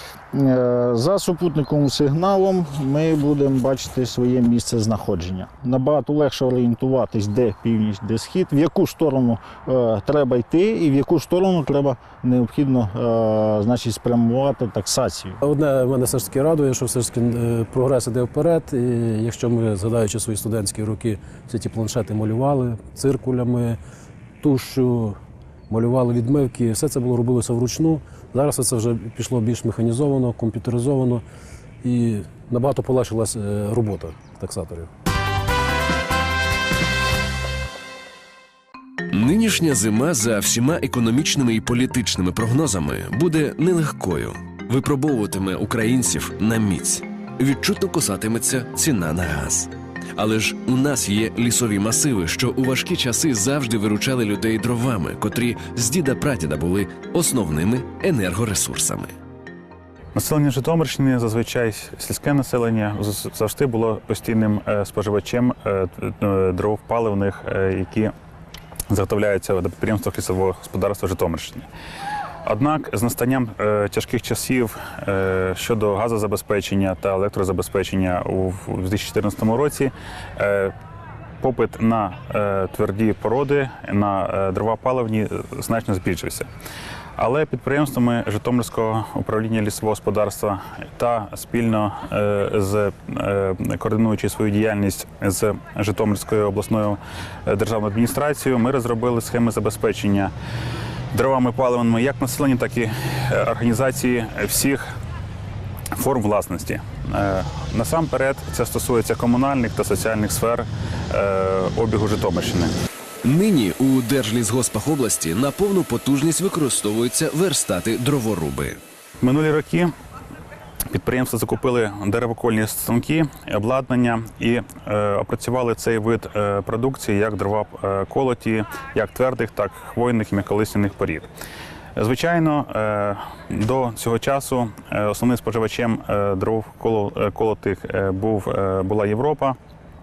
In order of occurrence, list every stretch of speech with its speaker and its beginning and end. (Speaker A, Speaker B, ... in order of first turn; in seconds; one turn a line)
Speaker A: 0.3-15.4
Speaker B: 15.4-23.8
Speaker B: 24.4-25.2
Speaker B: 25.7-31.2
Speaker B: 31.8-34.9
Speaker C: 39.1-59.1
Speaker D: 60.1-68.1
Speaker D: 68.9-71.7
Speaker D: 72.5-80.7
Speaker D: 81.4-86.5
Speaker D: 87.2-100.3
Speaker D: 101.1-104.8
Speaker D: 106.0-112.7
Speaker C: 113.2-118.8
Speaker D: 119.2-119.9
Speaker D: 120.9-131.3
Speaker D: 131.9-139.6